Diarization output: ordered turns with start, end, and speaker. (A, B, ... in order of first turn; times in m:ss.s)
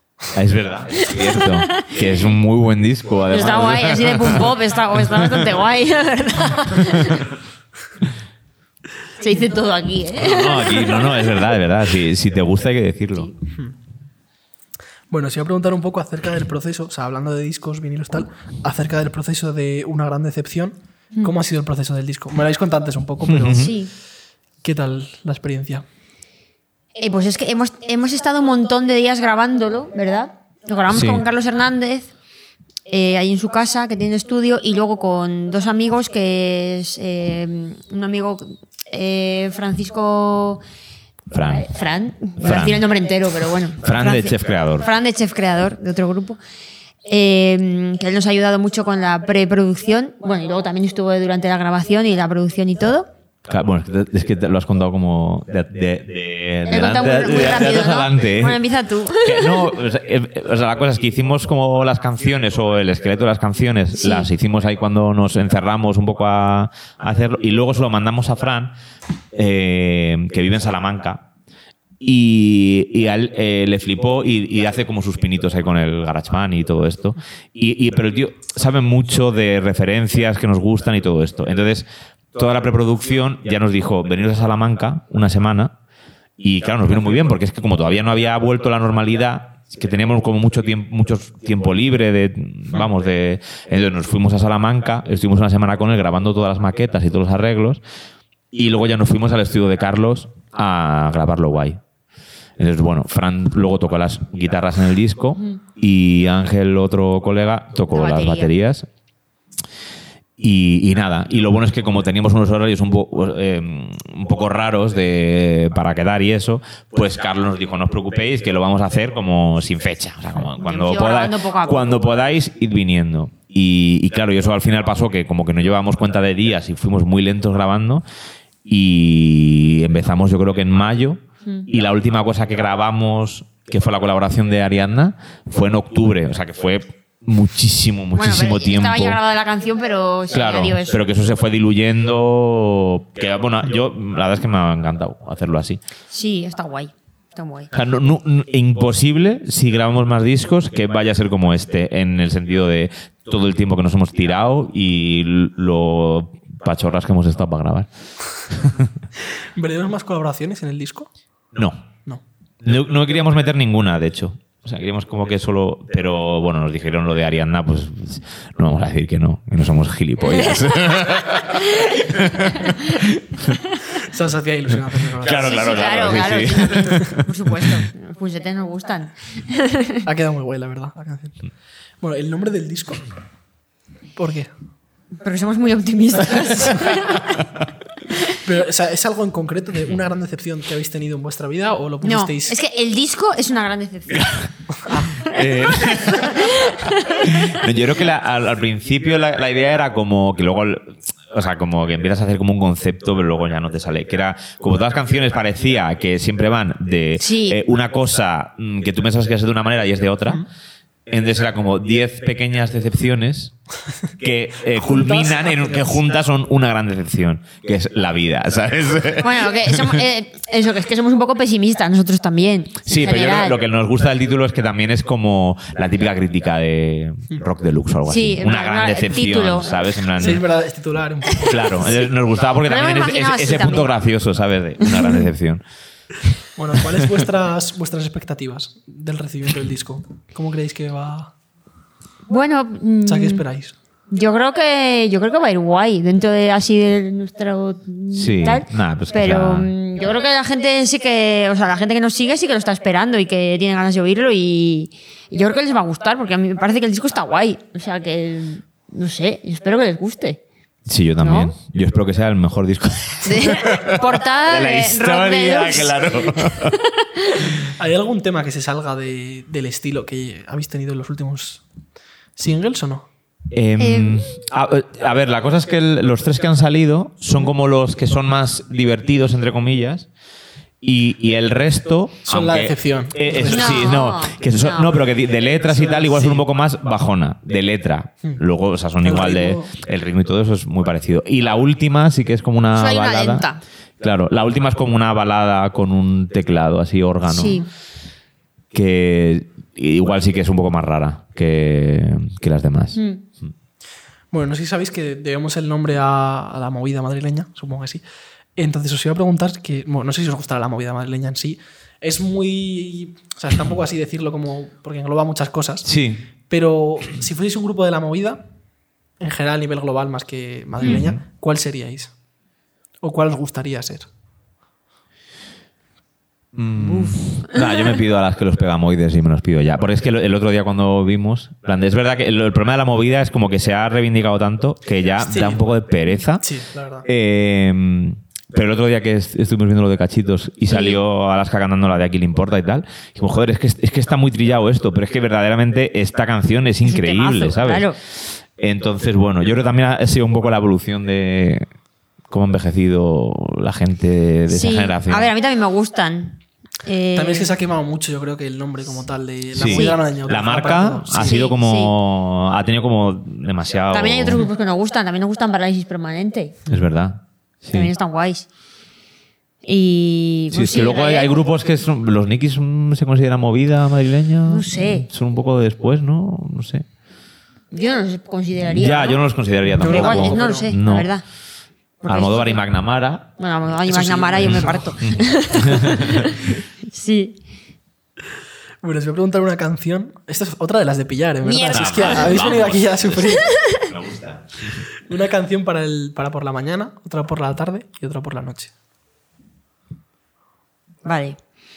0:00.3-0:05.5 A
0:01.0-0:02.0 B
0:03.3-0:07.3 B
0:09.2-0:11.4 B
0:10.2-0:13.3 A
0:15.1-0:23.7 C
0:23.3-0:23.7 A
0:23.5-0:23.9 B
0:24.6-0:25.8 C
0:27.0-0:32.1 B
0:30.9-0:31.2 A
0:32.9-0:40.6 B
0:41.3-0:41.7 A
0:41.5-0:46.4 B
0:42.4-0:42.8 A
0:43.8-0:44.9 A
0:47.1-0:53.1 B
0:53.5-0:58.6 A
0:56.7-0:59.8 B
0:59.2-1:08.7 A
1:04.0-1:04.3 B
1:09.3-1:11.2 A
1:12.0-1:25.8 A
1:26.4-1:37.8 A
1:38.5-1:41.8 A
1:42.6-1:48.9 A
1:47.9-1:48.5 B
1:50.4-2:08.0 A
2:00.6-2:02.1 B
2:08.6-2:19.2 A
2:18.2-2:21.0 B
2:20.3-2:25.8 A
2:26.1-2:27.7 B
2:27.7-2:37.9 A
2:38.5-2:38.9 A
2:39.6-2:41.1 C
2:41.6-2:41.9 A
2:42.6-2:53.6 A
2:50.2-2:53.0 B
2:54.0-2:55.8 C
2:55.2-2:57.7 A
2:55.3-3:00.0 B
3:00.0-3:01.5 C
3:02.0-3:03.0 C
3:04.2-3:04.5 C
3:05.2-3:07.4 B
3:08.3-3:12.6 C
3:12.0-3:14.5 B
3:14.8-3:15.1 C
3:15.1-3:17.5 B
3:15.2-3:30.4 A
3:27.2-3:27.6 B
3:31.1-3:33.6 A
3:34.2-3:40.0 A
3:34.8-3:35.9 C
3:39.2-3:43.6 B
3:42.9-3:50.4 A
3:48.1-3:49.8 B
3:50.2-3:51.7 C
3:51.4-3:55.6 A
3:52.6-3:53.9 B
3:54.8-3:55.3 B
3:56.6-4:01.3 C
4:02.3-4:03.4 B
4:03.1-4:03.8 C
4:04.1-4:20.4 B
4:08.1-4:09.7 A
4:20.9-4:26.8 A
4:21.2-4:21.6 B
4:23.2-4:27.4 B
4:27.6-4:31.6 C
4:32.4-4:33.1 C
4:33.5-4:40.1 A
4:33.8-4:34.3 B
4:40.8-4:53.5 A
4:42.3-4:43.9 C
4:43.5-4:45.0 B
4:45.6-4:46.4 C
4:49.0-4:49.7 C
4:52.7-4:53.6 B
4:54.0-4:57.7 A
4:57.3-4:57.7 B
4:58.7-5:03.5 A
5:03.0-5:03.2 B
5:04.3-5:08.0 C
5:08.6-5:15.9 C
5:15.8-5:16.2 A
5:16.5-5:18.5 C
5:19.2-5:22.1 C
5:20.8-5:21.2 A
5:23.0-5:24.1 C
5:26.5-5:36.5 A
5:26.8-5:27.8 B
5:35.2-5:35.6 C
5:36.4-5:37.1 C
5:37.0-5:47.9 A
5:40.7-5:41.0 B
5:46.8-5:48.0 B
5:48.6-5:51.7 A
5:52.3-5:55.3 A
5:54.5-5:57.5 B
5:57.2-6:01.4 C
5:59.6-6:04.5 A
5:59.6-6:00.0 B
6:01.2-6:01.9 B
6:03.9-6:06.6 B
6:06.7-6:07.9 A
6:07.7-6:08.5 B
6:09.6-6:11.4 B
6:10.5-6:16.8 A
6:14.5-6:15.1 B
6:17.7-6:19.3 B
6:18.7-6:21.1 A
6:19.8-6:20.7 C
6:19.8-6:21.2 B
6:22.0-6:22.6 B
6:22.1-6:23.3 A
6:23.4-6:27.4 B
6:23.9-6:25.1 C
6:24.4-6:26.4 A
6:28.8-6:33.5 C
6:31.4-6:32.6 B
6:31.7-6:34.9 A
6:33.4-6:33.9 B
6:35.0-6:38.7 C
6:41.0-6:41.4 B